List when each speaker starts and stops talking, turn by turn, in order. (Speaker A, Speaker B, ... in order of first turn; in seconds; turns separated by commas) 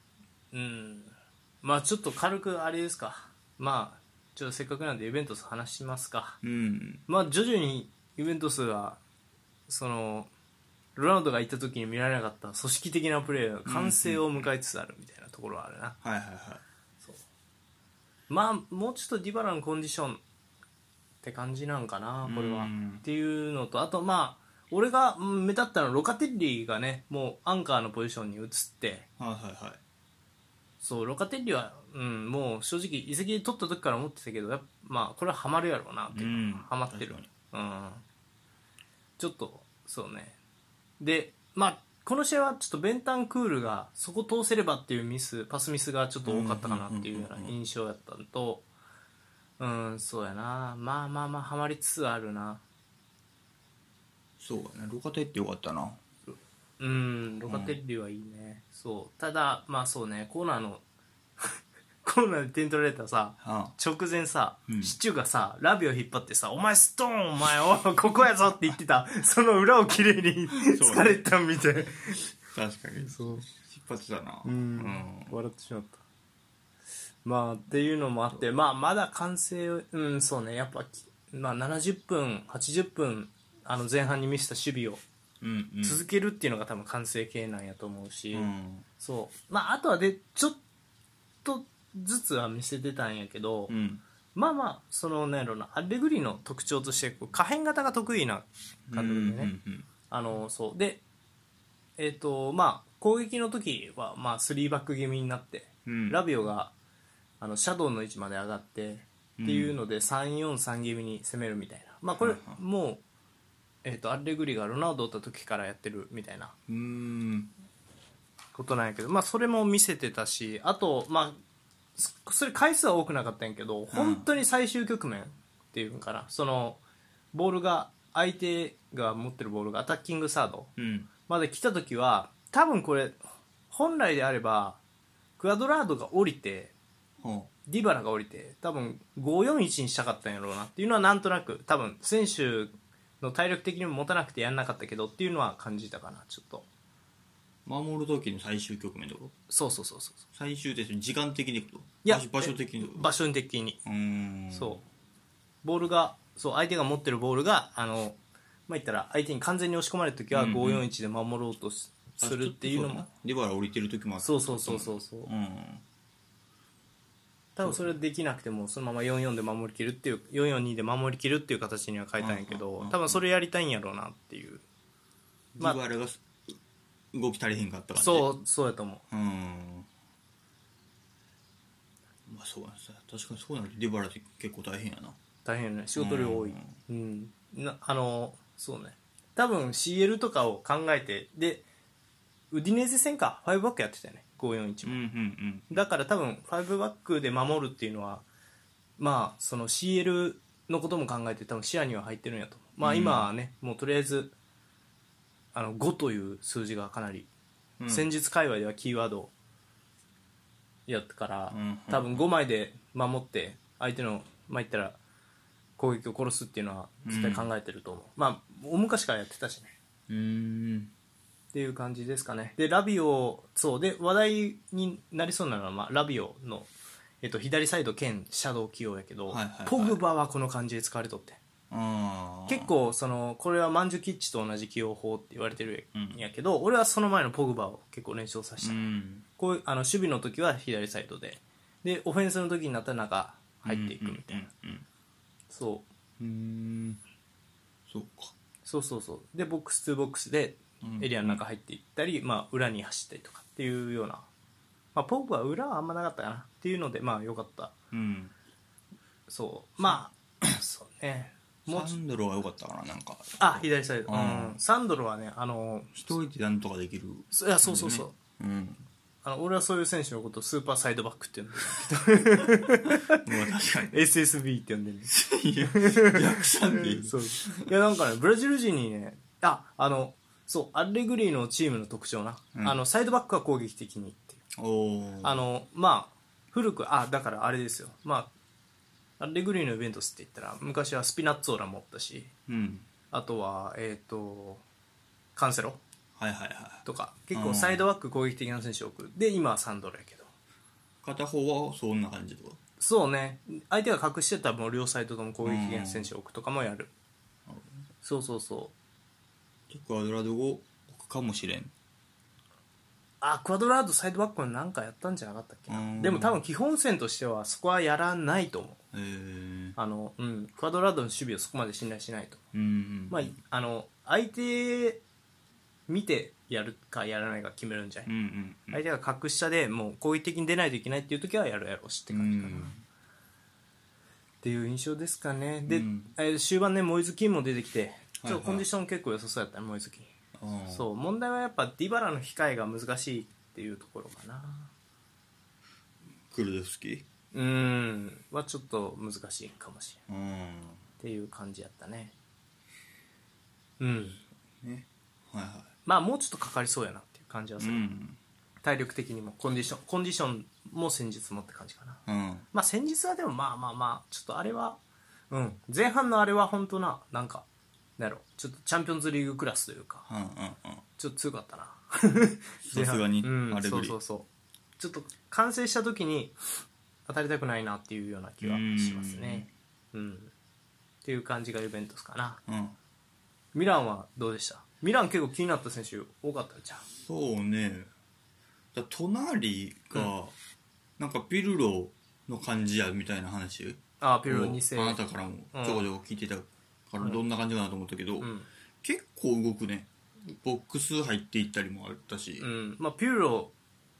Speaker A: 0.5-6.4, Speaker B: 6.4-7.0, Speaker A: 7.1-9.0, Speaker A: 9.7-10.3, Speaker A: 10.9-16.0, Speaker B: 13.6-14.4, Speaker B: 16.0-16.6, Speaker A: 18.3-20.2, Speaker A: 21.2-29.1, Speaker B: 22.2-23.0, Speaker B: 29.2-29.8, Speaker A: 30.8-38.0, Speaker B: 36.1-37.3, Speaker A: 39.2-40.4, Speaker A: 41.0-48.6, Speaker B: 46.2-47.5, Speaker A: 49.6-52.6, Speaker B: 54.4-56.0, Speaker A: 56.3-60.8, Speaker B: 57.5-57.8, Speaker A: 61.4-72.2, Speaker B: 63.4-63.7, Speaker B: 64.7-65.0, Speaker B: 70.5-71.3, Speaker B: 72.4-75.3, Speaker A: 73.0-73.5, Speaker A: 74.4-76.0, Speaker A: 77.2-85.0, Speaker B: 85.4-86.0, Speaker A: 85.8-90.6, Speaker B: 88.3-88.8, Speaker A: 91.4-93.7, Speaker B: 93.7-94.0, Speaker A: 94.3-99.5, Speaker B: 98.9-99.9, Speaker A: 100.1-101.0, Speaker A: 102.0-106.7, Speaker B: 105.8-106.2, Speaker A: 107.4-113.0, Speaker B: 109.4-109.8, Speaker B: 112.2-112.6, Speaker A: 113.8-116.5, Speaker B: 116.7-117.5, Speaker A: 118.5-121.4, Speaker A: 122.0-126.8, Speaker B: 123.9-124.3, Speaker A: 127.3-130.7, Speaker B: 130.8-131.1, Speaker A: 131.3-134.8, Speaker A: 135.4-136.7, Speaker B: 137.2-137.5, Speaker A: 137.7-146.7, Speaker B: 147.7-149.3, Speaker A: 149.5-150.2, Speaker B: 150.3-153.1, Speaker A: 152.0-153.8, Speaker B: 153.8-154.8, Speaker A: 154.5-154.8, Speaker A: 155.6-158.2, Speaker A: 158.7-163.1, Speaker B: 160.3-160.8, Speaker B: 162.2-165.8, Speaker A: 164.2-165.3, Speaker A: 167.6-174.6, Speaker B: 167.6-167.9, Speaker B: 172.2-173.2, Speaker B: 175.6-176.6, Speaker B: 177.1-178.3, Speaker A: 177.9-179.0, Speaker B: 179.1-179.9, Speaker B: 182.3-185.2, Speaker A: 185.4-191.6, Speaker B: 185.9-186.7, Speaker A: 192.5-195.0, Speaker B: 194.8-195.8, Speaker A: 195.7-198.2, Speaker A: 199.0-204.3, Speaker B: 202.8-203.3, Speaker A: 205.5-207.3, Speaker B: 207.8-208.1, Speaker A: 207.9-209.3, Speaker A: 210.9-215.0, Speaker B: 211.5-212.2, Speaker A: 215.8-219.7, Speaker B: 217.0-217.5, Speaker B: 220.1-220.9, Speaker A: 221.5-226.7, Speaker A: 227.2-231.4, Speaker B: 229.3-230.0, Speaker B: 231.7-232.7, Speaker A: 232.5-238.9, Speaker B: 235.9-236.2, Speaker B: 238.6-239.2, Speaker A: 239.4-244.5, Speaker B: 243.6-244.8, Speaker A: 245.5-245.8, Speaker B: 246.2-247.0, Speaker B: 247.9-248.3, Speaker A: 248.6-254.3, Speaker B: 250.8-251.4, Speaker A: 254.9-257.7, Speaker B: 257.9-258.3, Speaker A: 259.3-261.9, Speaker B: 261.6-264.6, Speaker A: 263.4-266.1, Speaker B: 265.9-268.9, Speaker A: 267.3-268.1, Speaker A: 269.2-273.2, Speaker B: 272.6-273.9, Speaker A: 273.9-275.1, Speaker B: 275.1-277.7, Speaker A: 275.6-284.4, Speaker B: 284.5-285.5, Speaker A: 285.2-288.3, Speaker A: 289.2-292.3, Speaker B: 292.5-292.9, Speaker A: 293.1-294.6, Speaker A: 295.4-295.8, Speaker B: 296.2-297.8, Speaker A: 296.9-300.3, Speaker B: 301.0-302.6, Speaker A: 302.8-306.9, Speaker B: 305.4-306.1, Speaker B: 307.4-307.8, Speaker A: 308.0-308.7, Speaker B: 309.7-311.7, Speaker A: 313.2-318.8, Speaker B: 315.7-316.4, Speaker B: 318.9-319.8, Speaker A: 319.8-322.4, Speaker B: 322.5-323.4, Speaker A: 323.1-325.0, Speaker A: 325.9-328.1, Speaker B: 328.1-328.8, Speaker A: 328.7-332.7, Speaker B: 332.1-332.8, Speaker A: 334.4-340.1, Speaker B: 335.6-336.1, Speaker B: 338.2-338.6, Speaker B: 340.3-340.9, Speaker A: 340.7-344.7, Speaker B: 346.3-347.1, Speaker A: 347.3-350.0, Speaker B: 350.1-350.8, Speaker A: 351.0-352.1, Speaker A: 353.8-354.2, Speaker B: 354.6-355.7, Speaker A: 355.9-357.8, Speaker B: 357.6-358.2, Speaker A: 358.6-362.0, Speaker B: 362.1-362.5, Speaker A: 362.5-364.8, Speaker A: 365.3-367.4, Speaker A: 368.0-370.1, Speaker B: 370.1-370.8, Speaker A: 371.0-374.3, Speaker B: 372.6-374.0, Speaker A: 374.8-376.4, Speaker A: 377.1-380.3, Speaker B: 378.4-379.5, Speaker A: 381.0-382.4, Speaker B: 382.5-382.8, Speaker A: 383.5-386.8, Speaker B: 387.0-387.9, Speaker B: 388.7-390.3, Speaker B: 391.0-398.3, Speaker A: 394.0-395.0, Speaker A: 395.5-395.9, Speaker A: 398.2-398.5, Speaker B: 398.8-402.4, Speaker A: 402.4-403.5